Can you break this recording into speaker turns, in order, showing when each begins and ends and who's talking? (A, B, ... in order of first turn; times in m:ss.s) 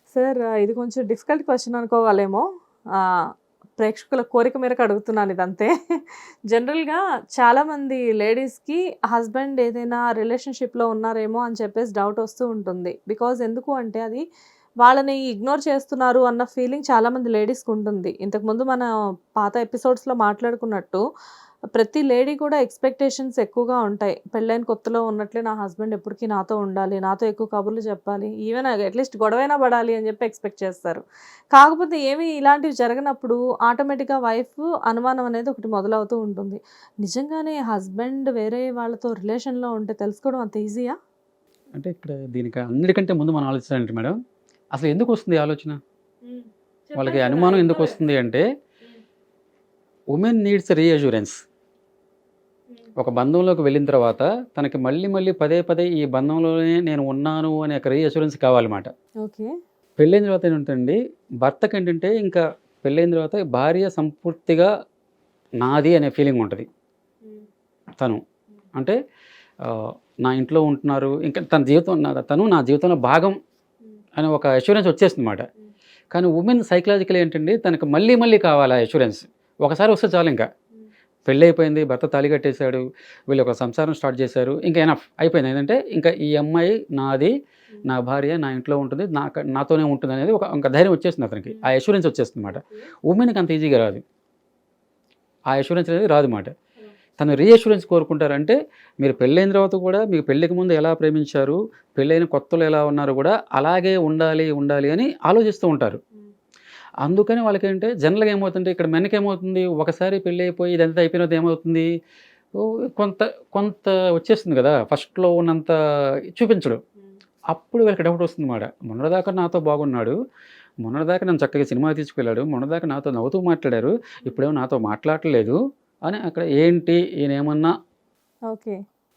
0:00.1-0:03.2 A
0:03.8-0:14.2 A
0:14.8-0:21.0 A
0:21.7-0:40.9 A
0:41.7-0:44.2 B
0:44.7-0:45.8 B
0:46.3-0:47.9 A
0:46.9-0:48.4 B
0:50.1-0:51.4 B
0:53.0-0:58.9 B
0:59.2-0:59.5 A
1:00.0-1:04.7 B
1:05.6-1:06.6 B
1:09.6-1:13.4 B
1:14.2-1:15.4 B
1:16.1-1:20.5 B
1:21.2-1:34.0 B
1:35.5-1:36.5 B
1:37.2-1:46.0 B
1:47.0-1:51.8 B
1:52.6-1:55.8 B
1:56.3-1:56.8 B
1:57.5-2:00.2 B
2:00.8-2:07.7 B
2:08.5-2:08.8 A